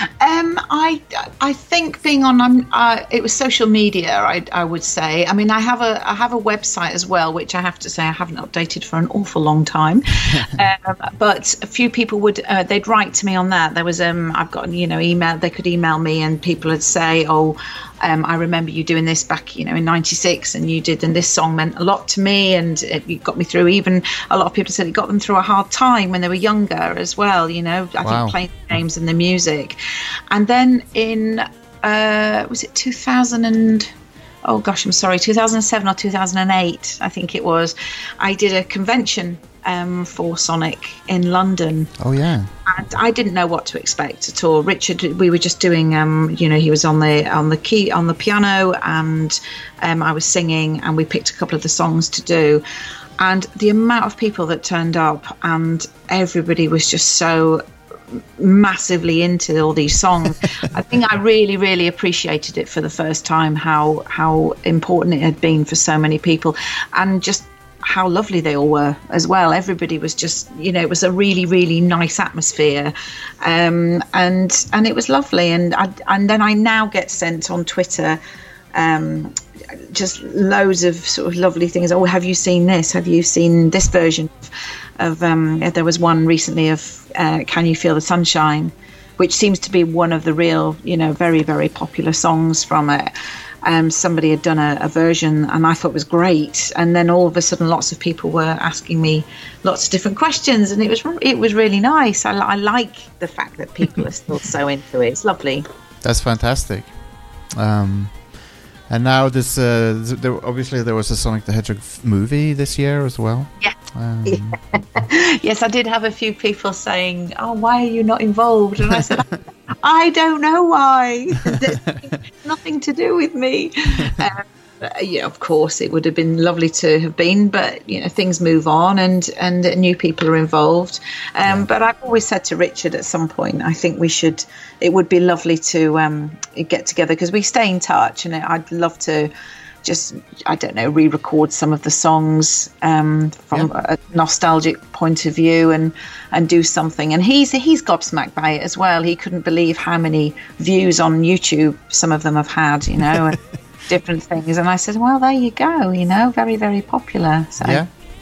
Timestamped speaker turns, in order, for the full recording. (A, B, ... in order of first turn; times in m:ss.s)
0:00.2-0:29.8 A
0:10.3-0:10.6 B
0:28.0-0:28.4 B
0:30.3-0:33.9 A
0:34.4-0:41.9 A
0:42.0-0:42.5 B
0:42.7-0:52.6 A
0:53.2-0:57.6 A
0:58.4-1:18.2 A
1:18.7-1:33.1 A
1:33.6-1:45.7 A
1:46.0-1:46.9 B
1:47.5-1:48.2 B
1:48.9-1:54.6 B
1:54.3-1:59.3 A
1:59.8-2:19.3 A
2:01.5-2:02.0 B
2:19.8-2:37.8 A
2:37.6-2:37.9 B